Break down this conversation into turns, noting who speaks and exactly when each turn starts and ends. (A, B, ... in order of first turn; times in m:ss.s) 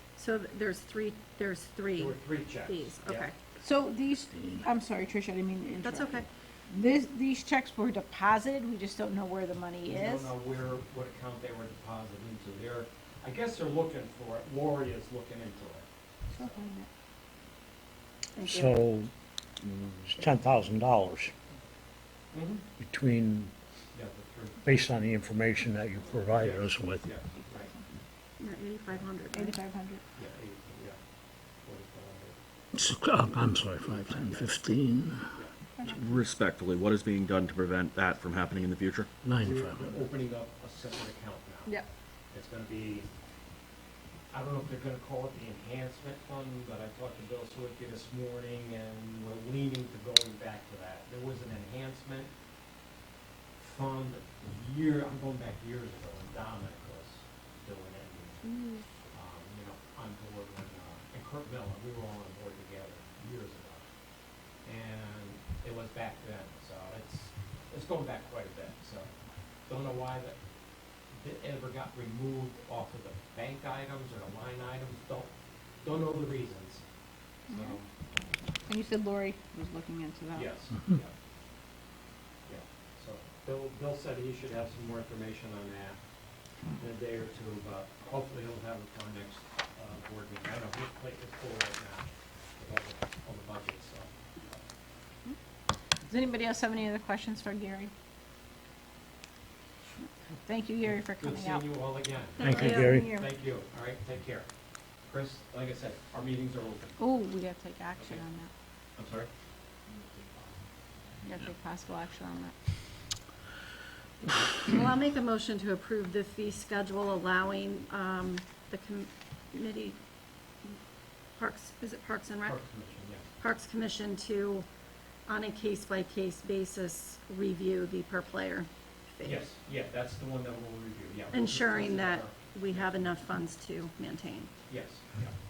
0:00.2-0:03.3 A
0:01.9-0:03.3 B
0:03.6-0:10.3 C
0:04.4-0:04.6 D
0:05.8-0:06.2 A
0:09.9-0:15.8 B
0:16.3-0:16.9 C
0:18.4-0:18.8 A
0:18.4-0:19.1 D
0:19.6-0:21.3 D
0:22.3-0:22.6 B
0:22.8-0:23.5 D
0:23.9-0:24.7 B
0:24.6-0:27.2 D
0:26.4-0:27.7 B
0:28.4-0:29.6 A
0:29.3-0:30.0 C
0:30.2-0:31.0 B
0:31.6-0:32.4 B
0:32.7-0:35.3 D
0:34.0-0:34.5 B
0:35.8-0:36.1 C
0:35.9-0:39.1 E
0:39.2-0:40.0 D
0:39.4-0:41.8 B
0:42.3-0:43.1 B
0:44.3-0:52.3 B
0:53.6-0:58.4 B
0:58.4-0:58.8 C
0:59.1-1:03.8 B
1:04.6-1:09.1 B
1:09.7-1:10.4 B
1:11.2-1:15.3 B
1:15.8-1:16.8 B
1:17.5-1:17.8 C
1:17.5-1:17.9 B
1:18.6-1:20.5 C
1:20.3-1:21.1 B
1:22.5-1:26.0 B
1:26.8-1:34.6 B
1:36.0-1:37.9 C
1:40.4-1:41.6 C
1:40.9-1:44.5 B
1:42.4-1:43.0 A
1:42.4-1:43.1 D
1:42.6-1:43.3 C
1:45.1-1:47.0 B
1:47.0-1:48.5 C
1:49.0-1:49.3 B
1:51.2-1:52.5 C
1:54.6-2:00.0 A
2:01.4-2:02.6 A
2:02.4-2:03.2 B
2:03.4-2:04.6 A
2:05.3-2:09.4 A
2:09.2-2:13.0 B
2:11.3-2:14.5 A
2:14.7-2:15.3 B